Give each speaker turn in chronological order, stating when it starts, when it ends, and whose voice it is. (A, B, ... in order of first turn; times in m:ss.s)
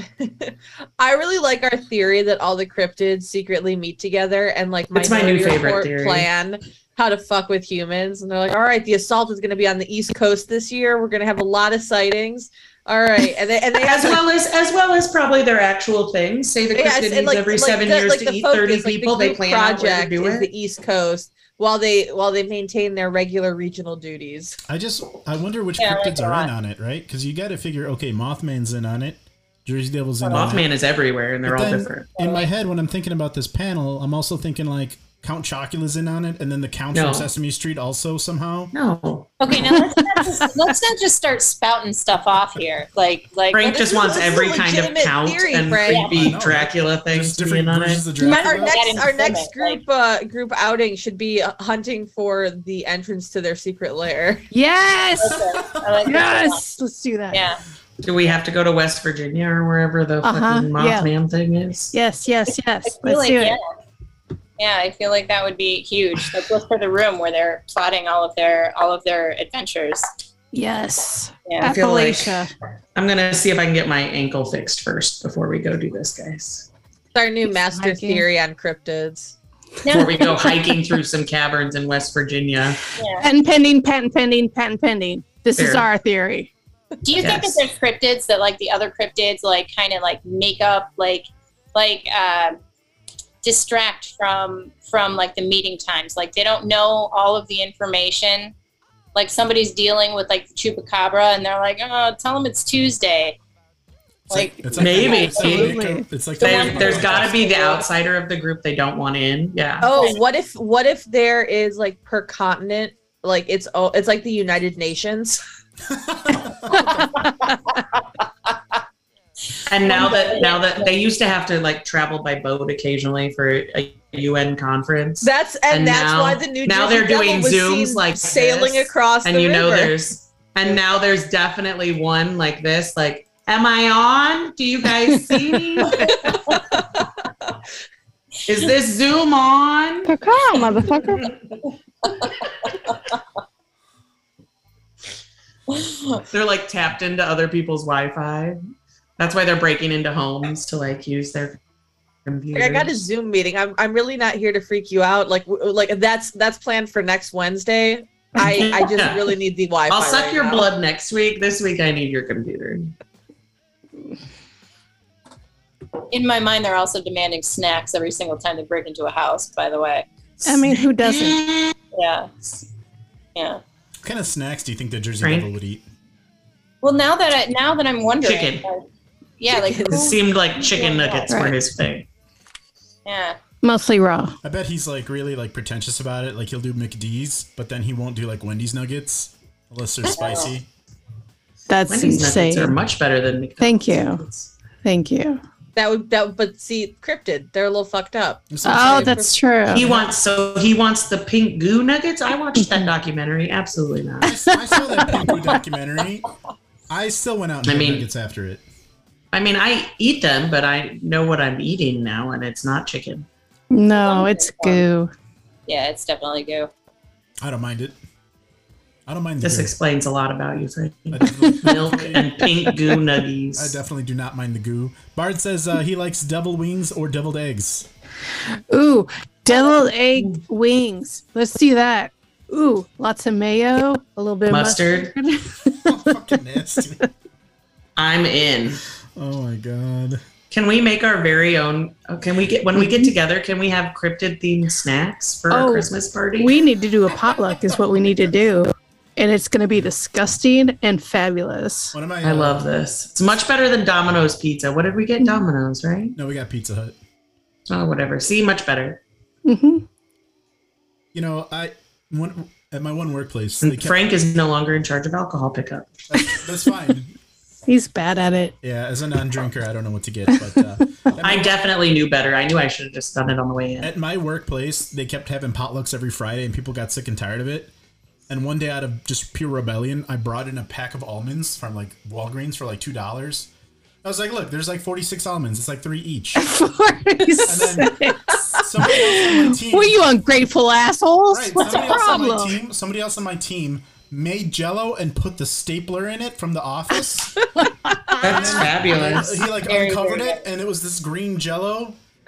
0:00.2-0:14.2 A
0:04.9-0:06.3 B
0:13.8-0:20.5 B
0:16.7-0:24.6 A
0:24.7-0:30.7 C
0:25.8-0:26.5 D
0:30.2-0:30.6 D
0:30.3-0:32.1 B
0:31.4-0:38.7 C
0:32.2-0:32.5 D
0:36.9-0:37.3 B
0:38.7-0:39.3 B
0:39.4-0:44.5 D
0:43.5-0:48.0 B
0:43.7-0:46.4 A
0:45.9-0:46.1 D
0:46.1-0:49.0 C
0:48.2-0:49.8 D
0:48.2-0:54.4 A
0:54.5-0:55.4 E
0:55.2-0:56.6 D
0:56.0-0:57.4 E
0:57.3-0:57.6 D
0:58.0-1:01.9 B
1:00.2-1:01.1 E
1:01.9-1:03.6 E
1:02.9-1:03.6 D
1:04.6-1:10.0 D
1:10.5-1:12.5 E
1:11.4-1:11.7 D
1:11.6-1:12.4 B
1:13.0-1:16.7 B
1:17.1-1:19.4 A
1:17.8-1:18.2 E
1:19.8-1:20.5 D
1:19.9-1:22.8 B
1:23.0-1:23.2 D
1:23.2-1:26.5 E
1:25.6-1:25.9 B
1:27.0-1:32.6 D
1:27.2-1:27.6 B
1:33.4-1:38.5 D
1:39.1-1:43.4 D
1:44.3-1:45.7 D
1:44.3-1:47.6 C
1:44.8-1:45.8 B
1:45.4-1:46.0 E
1:46.4-1:47.8 D
1:46.4-1:49.9 B
1:49.8-1:55.4 A
1:55.9-1:57.2 C
1:59.6-2:16.7 B
1:59.8-2:00.8 D
2:05.2-2:09.9 A
2:18.4-2:20.2 B
2:20.0-2:21.3 E
2:21.0-2:21.3 B
2:25.7-2:26.2 D
2:26.3-2:28.6 B
2:29.2-2:31.6 B
2:32.2-2:32.9 B
2:32.6-2:40.6 A
2:38.4-2:39.3 B
2:39.9-2:42.9 B
2:46.1-2:50.1 D
2:50.4-2:51.8 B
2:50.4-2:51.4 E
2:51.9-2:52.3 D
2:53.3-2:53.6 D
2:54.0-2:55.8 C
2:55.2-2:55.5 B
2:56.8-2:58.8 D
2:58.2-2:58.6 B
2:59.4-3:01.4 D
2:59.5-3:02.1 B
3:01.3-3:01.6 E
3:03.0-3:03.4 D
3:03.6-3:04.4 E
3:04.4-3:10.7 C
3:10.1-3:10.5 D
3:11.7-3:12.8 E
3:11.9-3:14.5 B
3:13.6-3:14.2 E
3:14.8-3:15.4 E
3:15.8-3:19.3 A
3:18.5-3:20.1 C
3:18.6-3:19.9 E
3:19.7-3:24.3 B
3:24.2-3:26.3 C
3:24.5-3:25.4 E
3:26.9-3:28.6 C
3:27.6-3:28.0 B
3:29.3-3:33.3 B
3:33.7-3:35.1 E
3:33.9-3:34.9 D
3:35.7-3:36.7 D
3:37.4-3:38.0 C
3:39.1-3:39.7 C
3:39.4-3:43.7 B
3:41.1-3:42.4 C
3:41.4-3:42.2 E
3:43.6-3:47.9 C
3:48.5-3:56.2 E
3:49.5-3:50.4 B
3:54.5-3:55.1 B
3:55.8-3:57.0 C
3:56.8-3:57.0 E
3:58.0-3:58.8 B
3:59.1-4:00.2 C
4:00.5-4:06.6 B
4:05.5-4:11.9 E
4:11.9-4:12.6 C
4:12.2-4:16.2 B
4:16.2-4:17.0 C
4:17.7-4:19.0 B
4:19.4-4:19.8 E
4:21.1-4:24.0 C
4:23.6-4:25.9 B
4:26.1-4:27.1 C
4:27.7-4:28.6 E
4:28.6-4:31.6 C
4:31.2-4:33.9 B
4:33.8-4:37.7 C
4:38.3-4:43.5 C
4:44.0-4:46.5 C
4:46.4-4:52.5 E
4:47.4-4:48.0 C
4:48.6-4:50.0 C
4:51.3-4:57.5 C
4:57.6-4:58.7 E
4:58.2-4:59.3 B
4:58.2-5:02.0 C
4:59.6-5:00.4 D